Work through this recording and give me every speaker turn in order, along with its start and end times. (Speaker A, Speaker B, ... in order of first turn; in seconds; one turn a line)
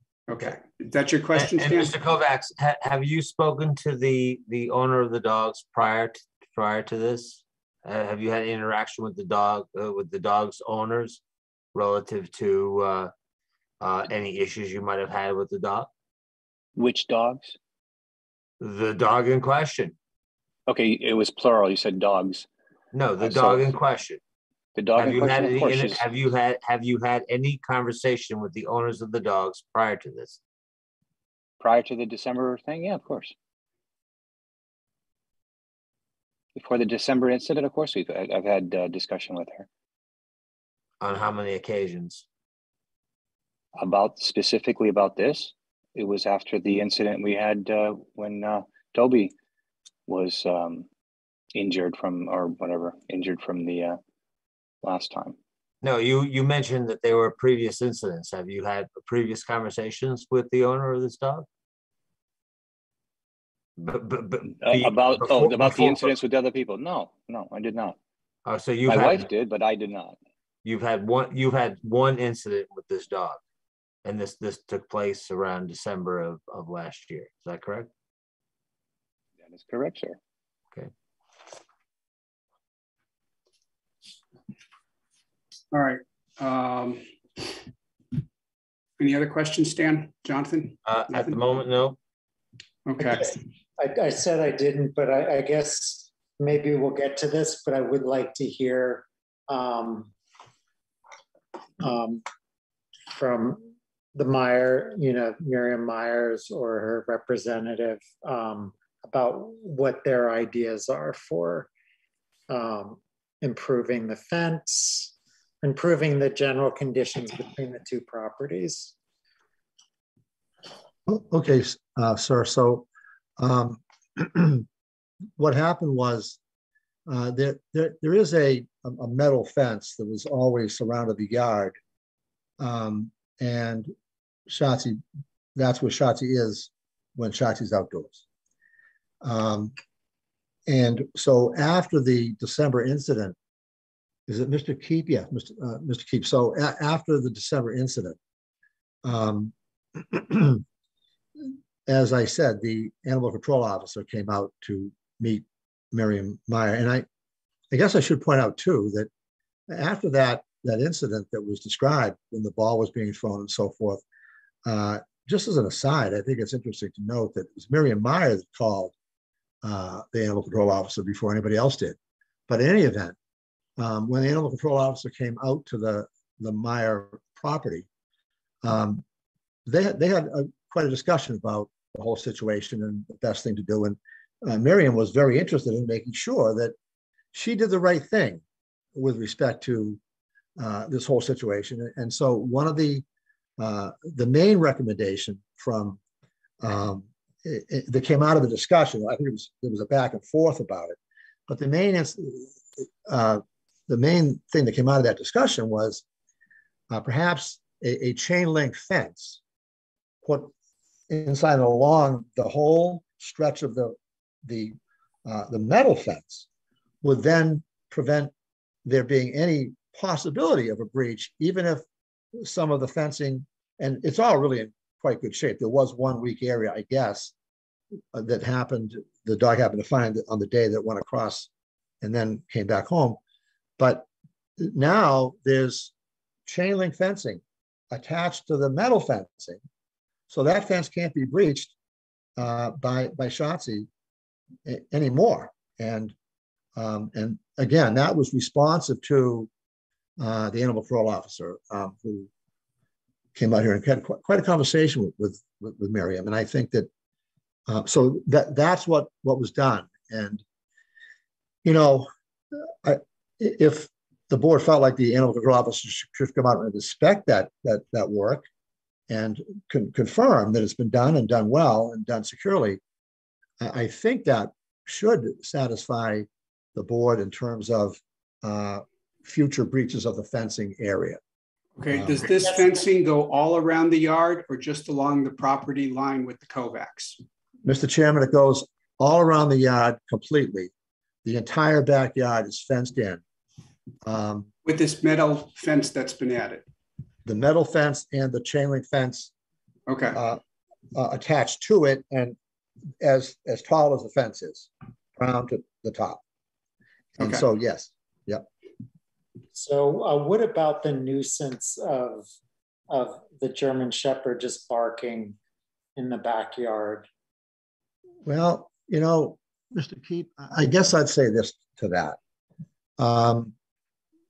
Speaker A: 0.3-1.9
Speaker B: 1.4-11.2
Speaker B: 11.7-13.1
Speaker B: 13.8-15.9
Speaker C: 16.8-17.6
Speaker B: 18.6-19.9
Speaker C: 20.7-22.5
Speaker B: 22.9-24.2
Speaker C: 23.2-23.6
Speaker C: 24.8-26.1
Speaker B: 25.0-30.4
Speaker C: 31.6-33.3
Speaker C: 36.6-39.7
Speaker B: 41.0-42.3
Speaker C: 43.8-49.3
Speaker C: 50.1-50.9
Speaker C: 51.5-54.0
Speaker C: 54.8-55.4
Speaker B: 55.8-61.5
Speaker B: 63.8-66.2
Speaker C: 64.6-68.0
Speaker B: 68.5-69.3
Speaker C: 68.9-70.2
Speaker B: 70.6-73.4
Speaker B: 74.0-77.9
Speaker C: 79.5-80.2
Speaker A: 85.7-87.0
Speaker A: 89.0-91.4
Speaker B: 90.8-92.0
Speaker A: 92.9-93.3
Speaker D: 93.0-100.1
Speaker D: 101.8-102.2
Speaker D: 103.1-111.7
Speaker D: 112.5-119.0
Speaker E: 121.1-122.9
Speaker E: 123.4-124.7
Speaker E: 125.4-126.4
Speaker E: 127.1-131.8
Speaker E: 132.6-133.9
Speaker E: 134.5-135.0
Speaker E: 135.6-138.2
Speaker E: 139.2-139.7
Speaker E: 140.7-143.4
Speaker E: 144.3-148.2
Speaker E: 149.0-150.6
Speaker E: 151.9-157.1
Speaker E: 157.7-159.1
Speaker E: 159.7-164.0
Speaker E: 164.7-168.9
Speaker E: 169.6-172.0
Speaker E: 172.5-173.2
Speaker E: 173.8-177.9
Speaker E: 178.6-179.0
Speaker E: 179.7-186.7
Speaker E: 187.3-188.4
Speaker E: 188.9-190.0
Speaker E: 190.6-193.0
Speaker E: 193.6-196.0
Speaker E: 196.6-201.0
Speaker E: 201.5-206.0
Speaker E: 206.9-209.4
Speaker E: 210.2-210.5
Speaker E: 211.1-216.5
Speaker E: 217.0-218.3
Speaker E: 218.8-221.8
Speaker E: 222.4-227.3
Speaker E: 228.1-231.5
Speaker E: 232.0-233.2
Speaker E: 233.8-234.1
Speaker E: 234.6-235.9
Speaker E: 236.5-239.6
Speaker E: 240.3-241.8
Speaker E: 242.4-243.9
Speaker E: 244.7-246.1
Speaker E: 246.8-249.5
Speaker E: 250.2-252.3
Speaker E: 253.3-256.9
Speaker E: 257.7-260.4
Speaker E: 261.6-268.5
Speaker E: 269.1-272.8
Speaker E: 273.6-281.2
Speaker A: 281.8-287.2
Speaker E: 281.9-282.5
Speaker E: 287.6-290.7
Speaker E: 291.2-293.2
Speaker E: 294.0-294.5
Speaker A: 294.7-296.7
Speaker E: 297.3-299.3
Speaker A: 299.9-300.2
Speaker E: 300.1-300.4
Speaker E: 300.9-302.4
Speaker E: 303.0-306.2
Speaker E: 307.2-308.5
Speaker D: 309.6-312.3
Speaker D: 312.9-315.4
Speaker D: 316.0-317.1
Speaker E: 318.2-322.2
Speaker E: 323.0-323.5